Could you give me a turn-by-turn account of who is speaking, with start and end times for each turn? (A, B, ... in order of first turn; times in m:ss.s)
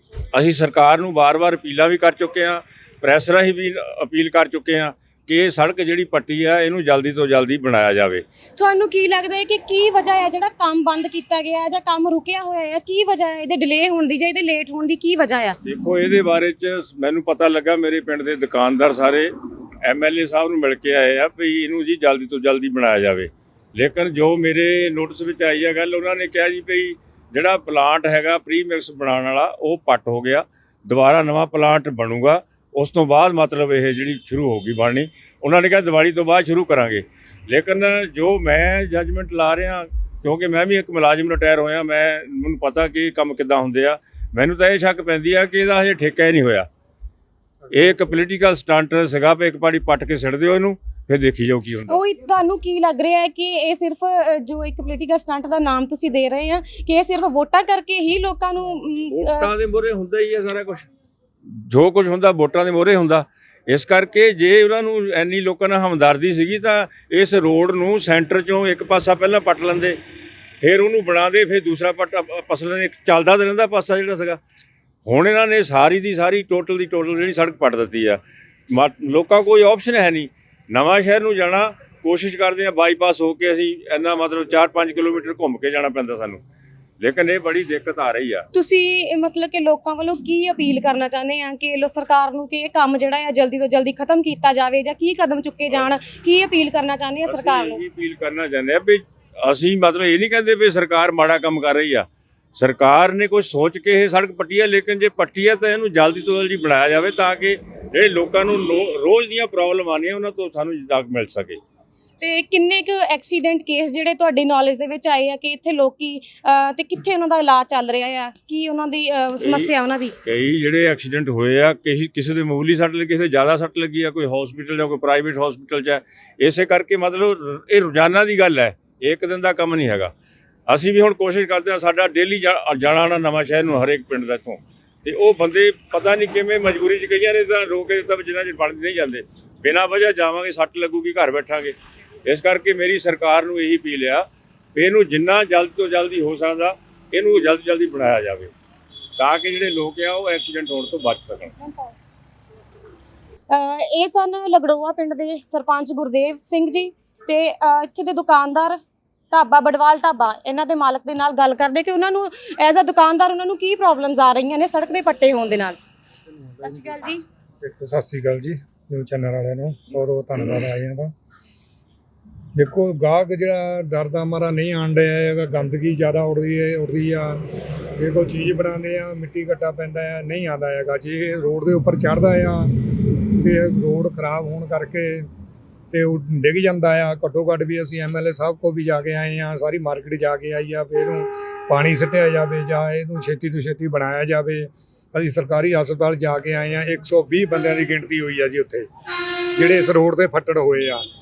0:00.3-0:08.2 A
0:08.6-0:15.6 B
0:15.6-0:19.3 A
0:19.8-0:46.7 A
0:47.7-0:52.0 A
0:51.9-0:59.5 B
0:59.1-1:00.9 A
1:01.4-1:10.0 A
1:10.6-1:14.4 A
1:15.0-1:26.4 A
1:27.0-1:28.5 A
1:28.5-1:37.8 B
1:37.3-1:51.6 A
1:52.2-2:00.1 B
1:59.4-1:59.7 A
2:00.2-2:10.1 A
2:10.7-2:28.5 A
2:29.2-2:31.5 A
2:33.5-2:38.8 B
2:39.3-2:45.8 B
2:46.6-2:47.2 B
2:47.6-2:51.1 C
2:52.5-2:57.4 C
2:58.0-3:05.3 C
3:05.9-3:18.9 C
3:19.6-3:21.0 C